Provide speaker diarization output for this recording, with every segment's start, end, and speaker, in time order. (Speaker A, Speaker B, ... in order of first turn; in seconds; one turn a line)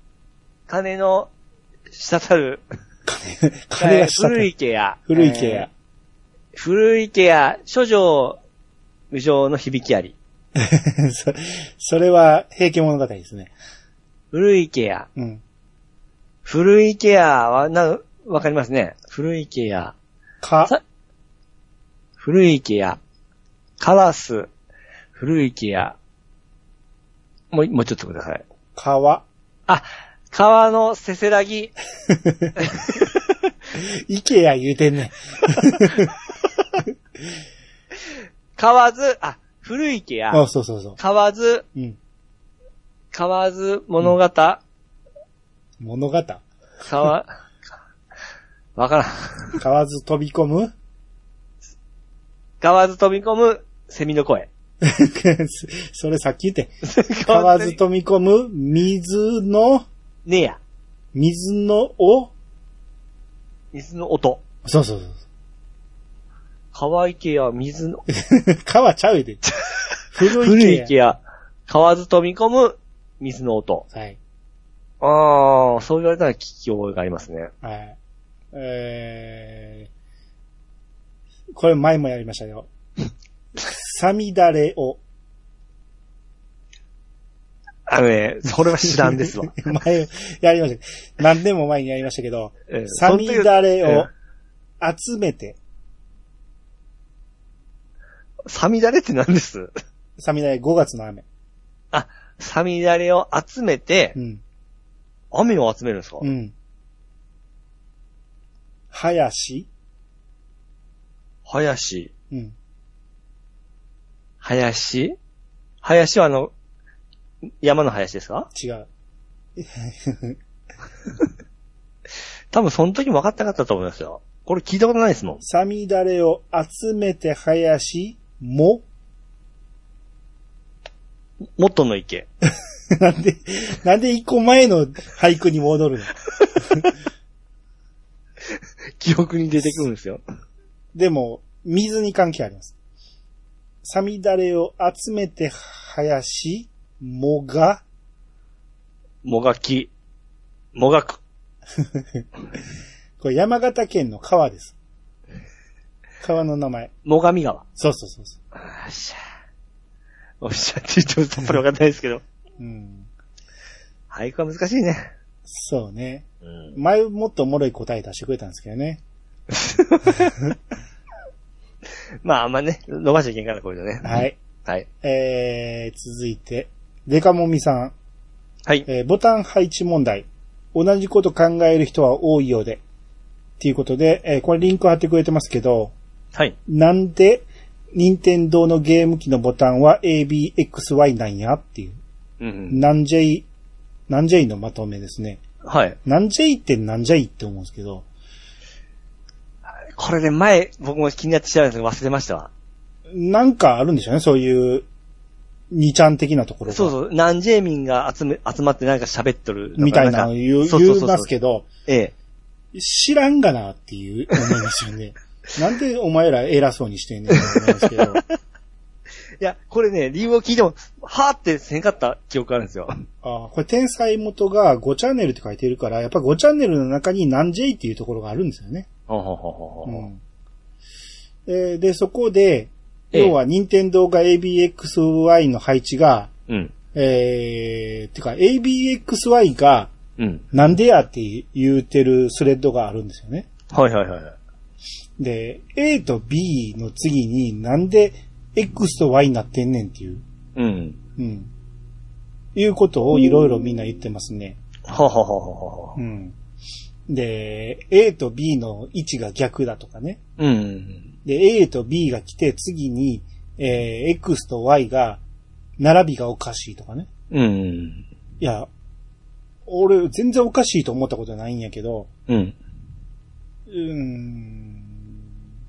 Speaker A: 0.7-1.3
Speaker A: 1.9-2.6
Speaker B: 3.1-4.5
Speaker A: 3.8-5.7
Speaker B: 5.1-5.7
Speaker A: 6.5-8.4
Speaker A: 9.1-10.2
Speaker B: 10.6-13.5
Speaker A: 14.3-15.1
Speaker B: 15.2-15.4
Speaker A: 16.4-19.9
Speaker B: 20.4-20.8
Speaker A: 22.2-23.0
Speaker A: 23.8-24.5
Speaker A: 25.1-26.0
Speaker A: 27.5-28.4
Speaker B: 28.8-29.2
Speaker A: 29.7-31.7
Speaker B: 32.1-32.7
Speaker A: 32.6-33.1
Speaker B: 33.7-36.1
Speaker A: 38.6-40.4
Speaker B: 40.3-41.0
Speaker A: 41.0-41.7
Speaker A: 43.1-44.6
Speaker B: 45.8-46.5
Speaker A: 46.8-47.3
Speaker A: 48.8-49.6
Speaker B: 49.6-50.7
Speaker A: 52.6-54.5
Speaker B: 54.8-56.7
Speaker A: 56.8-57.8
Speaker B: 57.2-59.9
Speaker A: 60.3-60.6
Speaker B: 61.1-62.3
Speaker A: 63.7-64.4
Speaker B: 64.7-65.2
Speaker A: 66.7-68.0
Speaker B: 68.1-69.4
Speaker B: 70.1-70.9
Speaker A: 70.2-73.8
Speaker B: 73.9-74.2
Speaker A: 75.0-77.5
Speaker B: 77.6-78.0
Speaker B: 78.5-79.9
Speaker B: 81.5-82.7
Speaker B: 83.6-85.0
Speaker A: 87.9-89.7
Speaker B: 88.8-94.1
Speaker A: 92.7-94.1
Speaker B: 94.8-95.6
Speaker A: 98.5-99.7
Speaker B: 100.2-101.2
Speaker A: 101.9-104.2
Speaker B: 104.2-104.4
Speaker A: 105.3-106.3
Speaker B: 106.2-106.5
Speaker B: 108.9-109.7
Speaker A: 111.5-112.1
Speaker A: 114.4-115.2
Speaker A: 115.8-116.5
Speaker A: 117.6-118.5
Speaker B: 118.5-118.9
Speaker B: 119.6-120.4
Speaker A: 122.5-125.4
Speaker B: 125.4-128.8
Speaker A: 131.6-132.3
Speaker B: 132.9-136.9
Speaker A: 139.0-140.2
Speaker B: 140.9-142.7
Speaker B: 143.8-147.8
Speaker A: 149.2-149.9
Speaker A: 150.8-151.2
Speaker B: 151.8-152.2
Speaker B: 153.2-154.8
Speaker B: 156.2-156.9
Speaker A: 157.1-157.6
Speaker B: 157.8-158.4
Speaker A: 158.6-159.2
Speaker A: 160.4-162.2
Speaker B: 162.6-163.1
Speaker A: 164.1-165.1
Speaker B: 165.5-169.0
Speaker A: 166.5-166.8
Speaker A: 169.5-170.4
Speaker A: 172.2-174.9
Speaker B: 174.0-174.4
Speaker B: 175.0-177.9
Speaker B: 178.9-182.8
Speaker B: 183.6-185.9
Speaker B: 186.7-192.0
Speaker A: 192.4-192.8
Speaker B: 192.7-193.5
Speaker B: 194.1-195.4
Speaker A: 195.6-196.0
Speaker B: 196.1-198.1
Speaker A: 199.9-202.5
Speaker B: 203.1-204.9
Speaker B: 205.7-206.9
Speaker A: 206.7-211.3
Speaker B: 209.8-211.7
Speaker A: 211.9-212.1
Speaker B: 212.7-218.2
Speaker A: 217.3-218.3
Speaker A: 219.4-222.9
Speaker B: 223.2-228.9
Speaker A: 229.1-230.1
Speaker B: 229.9-230.2
Speaker B: 231.5-236.3
Speaker B: 236.9-239.9
Speaker A: 240.2-240.4
Speaker B: 240.5-243.5
Speaker A: 243.7-244.4
Speaker B: 245.2-250.2
Speaker A: 250.6-251.0
Speaker B: 251.2-251.5
Speaker B: 252.6-254.6
Speaker A: 254.9-256.0
Speaker B: 256.0-256.4
Speaker B: 257.1-260.2
Speaker A: 260.4-261.1
Speaker B: 261.2-265.2
Speaker B: 265.8-267.1
Speaker A: 267.3-268.1
Speaker B: 268.4-268.7
Speaker B: 269.7-272.1
Speaker A: 272.3-272.6
Speaker B: 273.7-275.2